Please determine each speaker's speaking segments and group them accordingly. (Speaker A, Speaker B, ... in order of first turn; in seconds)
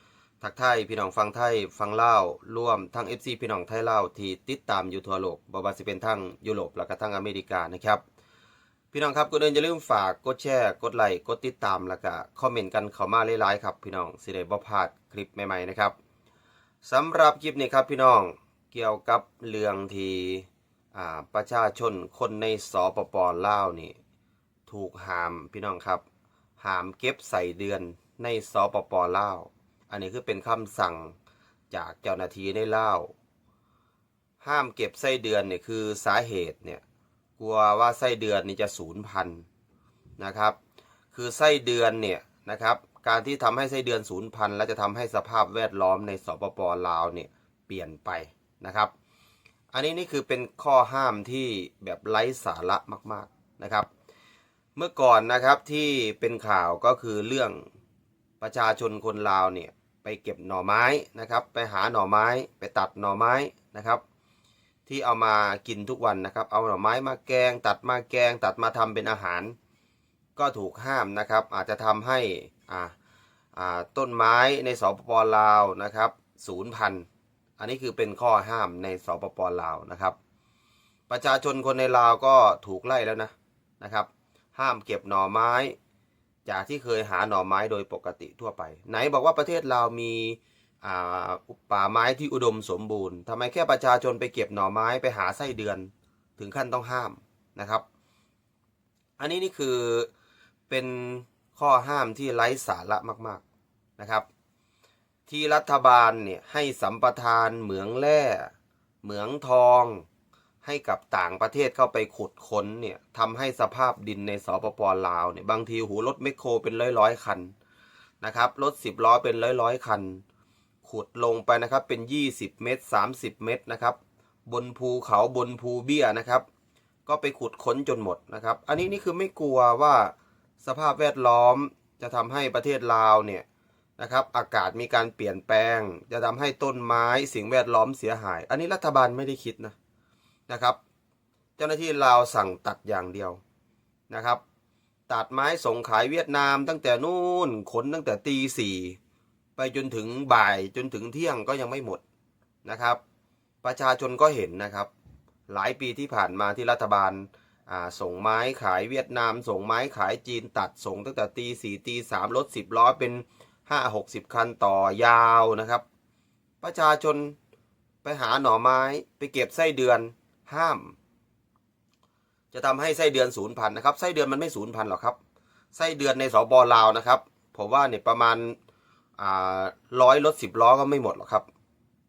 Speaker A: 0.4-8.0, 8.9-15.9, 16.8-23.9, 24.7-26.0, 26.6-31.1, 31.7-33.1, 34.4-36.8, 37.4-39.5, 40.2-40.6, 41.1-48.9, 49.7-53.9, 54.8-57.6, 58.4-64.0, 64.9-69.5, 70.3-72.9, 73.5-77.1, 77.6-80.2, 81.1-85.8, 86.5-97.8, 99.2-100.1, 100.7-103.4, 104.0-104.2, 105.3-108.5, 109.0-110.0, 110.6-117.5, 118.2-120.2, 120.8-126.5, 127.0-133.4, 134.0-139.7, 140.5-140.8, 141.6-143.4, 144.1-144.4, 145.1-149.0, 149.6-152.0, 152.6-153.0, 153.6-154.9, 155.5-165.8, 166.6-167.3, 168.0-170.9, 172.5-175.2, 175.7-178.6, 179.2-181.5